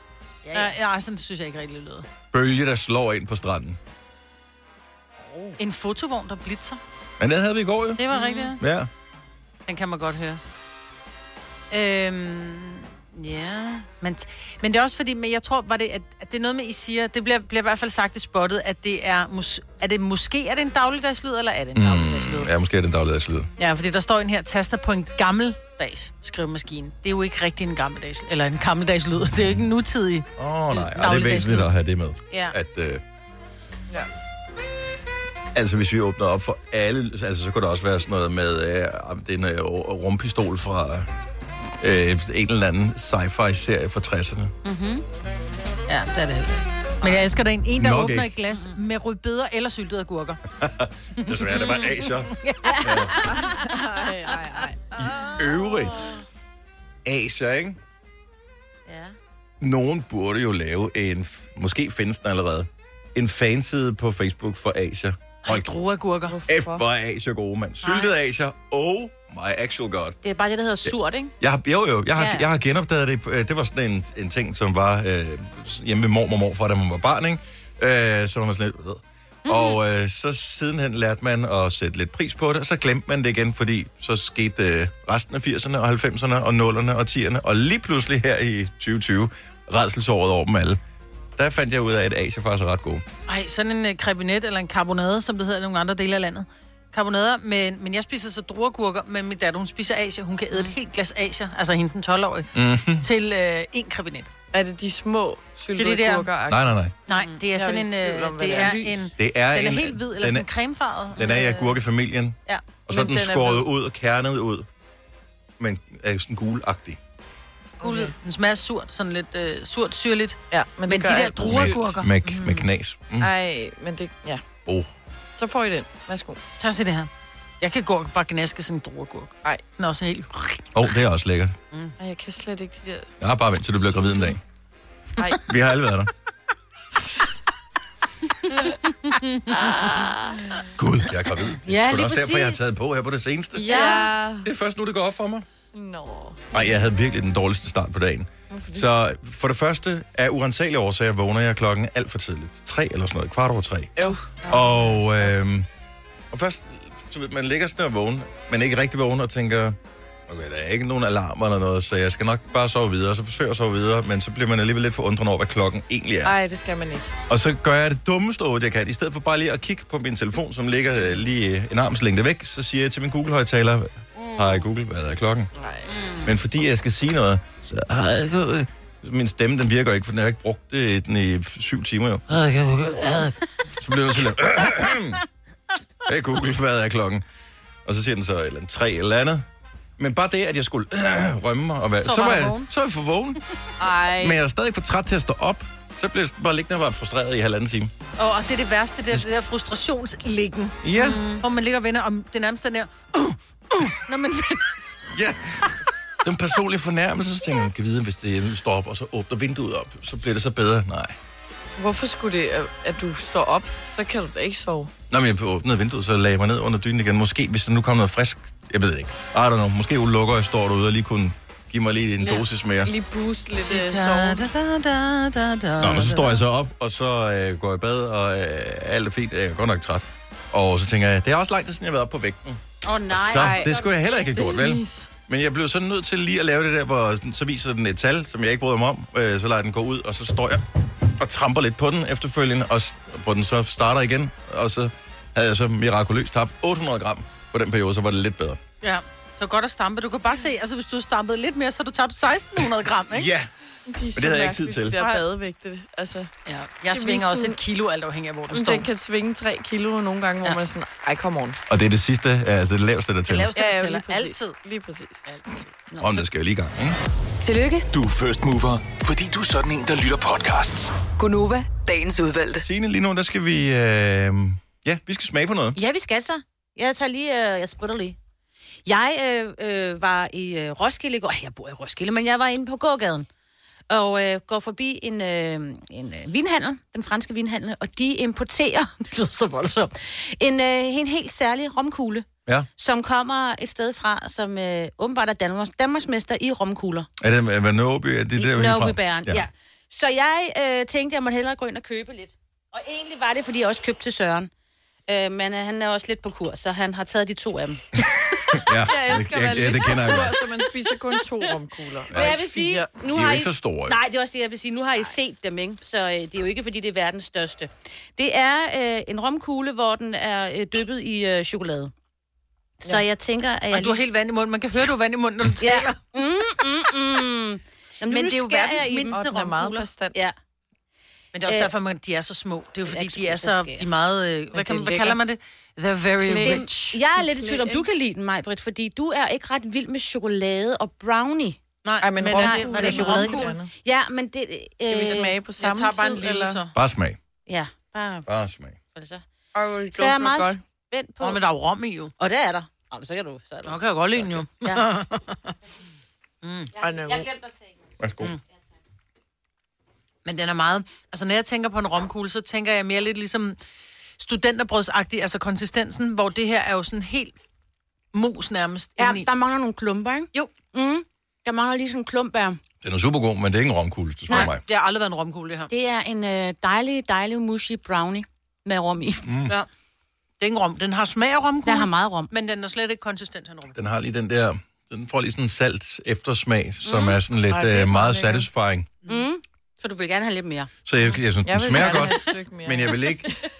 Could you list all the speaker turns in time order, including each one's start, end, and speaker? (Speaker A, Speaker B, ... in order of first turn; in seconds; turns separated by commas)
Speaker A: 0.4-0.7, Speaker B: 0.5-2.1, Speaker C: 2.3-3.8, Speaker A: 5.2-5.6, Speaker B: 5.6-6.8, Speaker C: 7.2-8.0, Speaker B: 8.0-8.6, Speaker A: 8.1-8.5, Speaker C: 8.6-8.9, Speaker B: 9.7-10.4, Speaker B: 11.7-22.5, Speaker C: 21.8-23.5, Speaker B: 23.6-31.7, Speaker C: 30.4-33.0, Speaker B: 32.3-32.6, Speaker C: 35.5-41.1, Speaker C: 41.8-44.5, Speaker A: 44.6-45.0, Speaker B: 45.9-50.4, Speaker C: 47.8-48.3, Speaker C: 50.6-53.2, Speaker B: 51.2-53.8, Speaker A: 51.5-51.9, Speaker A: 52.6-53.5, Speaker D: 53.3-54.8, Speaker C: 55.0-56.1, Speaker A: 55.2-56.2, Speaker C: 57.0-57.8, Speaker A: 58.9-59.2, Speaker C: 59.6-65.7, Speaker B: 65.4-66.3, Speaker D: 66.3-66.8, Speaker C: 66.5-70.2, Speaker A: 70.2-71.3, Speaker C: 70.8-90.8, Speaker A: 72.2-72.5, Speaker A: 79.5-79.8, Speaker C: 91.4-93.0, Speaker B: 93.3-102.5, Speaker C: 102.5-103.0, Speaker B: 103.0-104.3, Speaker D: 104.5-106.8, Speaker B: 105.8-106.3, Speaker C: 106.5-106.9, Speaker B: 107.1-111.3, Speaker D: 107.5-108.8, Speaker A: 108.6-109.1, Speaker C: 109.2-110.5, Speaker C: 111.1-114.7, Speaker D: 111.2-111.5, Speaker D: 112.9-113.7, Speaker C: 115.6-117.0, Speaker B: 117.8-122.7, Speaker D: 117.8-118.1, Speaker D: 120.5-121.9, Speaker C: 121.4-123.3, Speaker D: 123.2-124.4, Speaker D: 125.4-126.4, Speaker B: 126.6-127.1, Speaker B: 127.6-130.7, Speaker C: 130.7-131.6, Speaker D: 132.0-133.1, Speaker C: 133.2-134.4, Speaker C: 135.5-136.1, Speaker A: 139.0-139.7, Speaker D: 139.6-140.6, Speaker C: 140.8-145.4, Speaker A: 141.7-142.7, Speaker A: 143.6-144.1, Speaker D: 143.6-144.5, Speaker D: 145.7-146.4, Speaker C: 146.5-153.9, Speaker D: 148.5-148.9, Speaker D: 154.0-154.6, Speaker C: 154.4-155.7, Speaker C: 156.3-159.8, Speaker C: 160.3-166.3, Speaker D: 166.2-167.1, Speaker C: 167.3-175.5, Speaker A: 174.2-174.6, Speaker D: 175.6-175.9, Speaker A: 175.8-176.3, Speaker C: 176.2-185.2, Speaker C: 186.0-187.2, Speaker C: 187.8-189.5, Speaker C: 190.0-193.4, Speaker B: 192.0-192.7, Speaker D: 193.8-194.4, Speaker C: 194.2-197.9, Speaker B: 198.2-204.6, Speaker C: 200.8-201.2, Speaker A: 201.0-201.4, Speaker C: 205.1-205.6, Speaker C: 206.2-211.2, Speaker D: 211.8-214.9, Speaker C: 215.1-222.9, Speaker D: 222.2-224.5, Speaker B: 223.6-226.4, Speaker C: 225.8-248.6, Speaker A: 232.8-234.5, Speaker D: 233.3-233.8, Speaker D: 234.4-235.1, Speaker B: 248.8-253.3, Speaker C: 253.1-253.5, Speaker D: 253.9-256.3, Speaker C: 254.1-255.0, Speaker B: 256.5-258.9, Speaker D: 256.9-257.6, Speaker D: 258.5-261.6, Speaker C: 261.7-263.5, Speaker B: 263.3-264.5, Speaker D: 263.5-265.2, Speaker B: 265.2-265.7, Speaker A: 265.9-266.2, Speaker C: 266.0-267.0, Speaker E: 267.4-267.9, Speaker F: 267.9-270.9, Speaker E: 271.2-272.6, Speaker C: 272.6-275.8, Speaker A: 275.8-278.2, Speaker A: 278.9-283.3, Speaker A: 283.9-292.2, Speaker A: 292.8-297.1, Speaker C: 297.2-299.5, Speaker A: 298.4-304.5, Speaker A: 305.1-307.8, Speaker C: 308.3-310.4, Speaker D: 308.8-312.9, Speaker C: 312.1-312.4, Speaker A: 312.1-321.9, Speaker C: 313.1-314.0, Speaker A: 322.8-324.0, Speaker B: 323.7-326.0, Speaker A: 325.6-329.2, Speaker B: 328.1-329.9, Speaker D: 328.6-330.1, Speaker B: 331.3-337.0, Speaker A: 332.9-333.9, Speaker A: 334.5-335.2, Speaker D: 336.2-337.9, Speaker A: 336.4-341.6, Speaker B: 341.8-343.6, Speaker D: 342.0-343.7, Speaker A: 342.3-345.4, Speaker D: 344.9-346.6, Speaker B: 345.0-346.7, Speaker C: 346.7-347.2, Speaker A: 347.5-348.2, Speaker C: 348.2-348.8, Speaker A: 348.9-349.2, Speaker D: 349.5-350.6, Speaker A: 349.9-351.4, Speaker B: 351.2-352.1, Speaker A: 352.2-354.9, Speaker B: 353.6-355.5, Speaker B: 356.4-356.7, Speaker D: 356.8-357.3, Speaker A: 357.1-357.6, Speaker C: 358.0-358.3, Speaker B: 360.2-363.6, Speaker B: 364.2-367.4, Speaker B: 368.1-369.3, Speaker A: 369.0-372.6, Speaker C: 372.8-374.6, Speaker B: 374.3-375.7, Speaker A: 375.7-379.2, Speaker C: 379.2-379.6, Speaker B: 380.4-383.8, Speaker A: 381.6-382.3, Speaker C: 383.8-388.9, Speaker A: 386.9-387.2, Speaker D: 387.7-388.0, Speaker A: 389.1-390.7, Speaker C: 390.9-393.3, Speaker D: 391.4-393.3